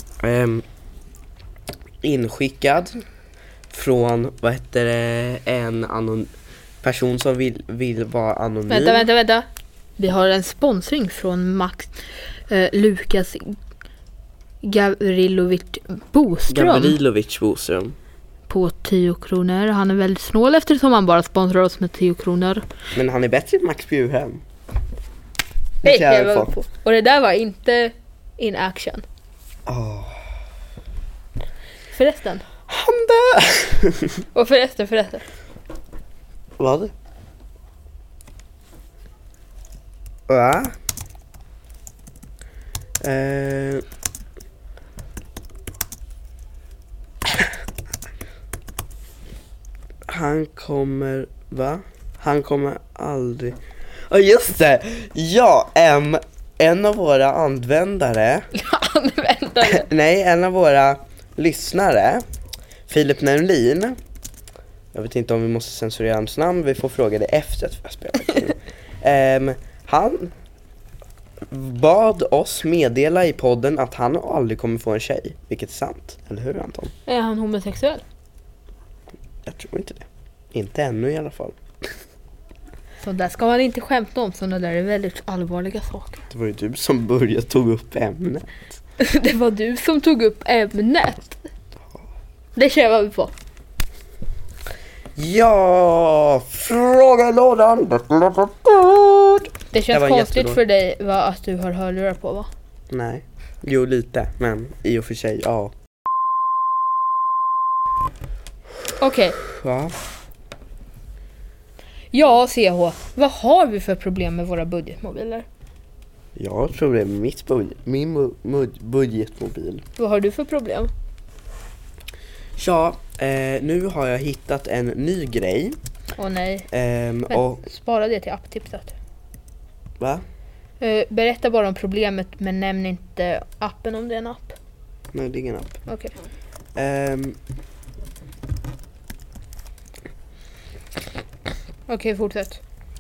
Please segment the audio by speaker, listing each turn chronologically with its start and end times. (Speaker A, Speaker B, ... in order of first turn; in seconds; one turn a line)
Speaker A: 0.2-0.7
Speaker A: 2.0-3.0
Speaker A: 3.7-6.3
Speaker A: 6.8-9.1
Speaker B: 8.7-9.5
Speaker B: 10.0-13.6
Speaker B: 14.6-17.0
Speaker A: 16.5-18.0
Speaker B: 18.5-22.6
Speaker A: 22.9-24.4
Speaker A: 25.8-26.5
Speaker B: 25.8-29.0
Speaker A: 29.7-30.2
Speaker B: 31.9-32.4
Speaker A: 32.7-34.2
Speaker B: 34.3-35.2
Speaker A: 36.6-36.9
Speaker A: 40.3-40.7
Speaker A: 43.0-43.8
Speaker A: 50.1-53.6
Speaker A: 54.1-58.5
Speaker B: 58.5-59.9
Speaker A: 59.6-62.2
Speaker A: 62.9-64.0
Speaker A: 64.9-70.3
Speaker A: 71.5-76.9
Speaker B: 77.1-78.0
Speaker A: 79.5-81.6
Speaker B: 83.0-86.2
Speaker A: 86.3-88.5
Speaker B: 89.0-91.5
Speaker B: 92.6-93.3
Speaker A: 95.2-100.6
Speaker B: 99.7-102.5
Speaker A: 102.9-105.7
Speaker B: 109.0-109.4
Speaker A: 109.4-110.0
Speaker B: 112.1-115.5
Speaker A: 116.4-119.8
Speaker B: 120.0-120.9
Speaker A: 122.6-125.8
Speaker B: 126.2-126.7
Speaker A: 126.7-127.6
Speaker B: 127.3-128.9
Speaker B: 130.8-134.6
Speaker A: 135.1-135.8
Speaker B: 135.9-136.1
Speaker A: 136.8-137.4
Speaker B: 141.9-142.6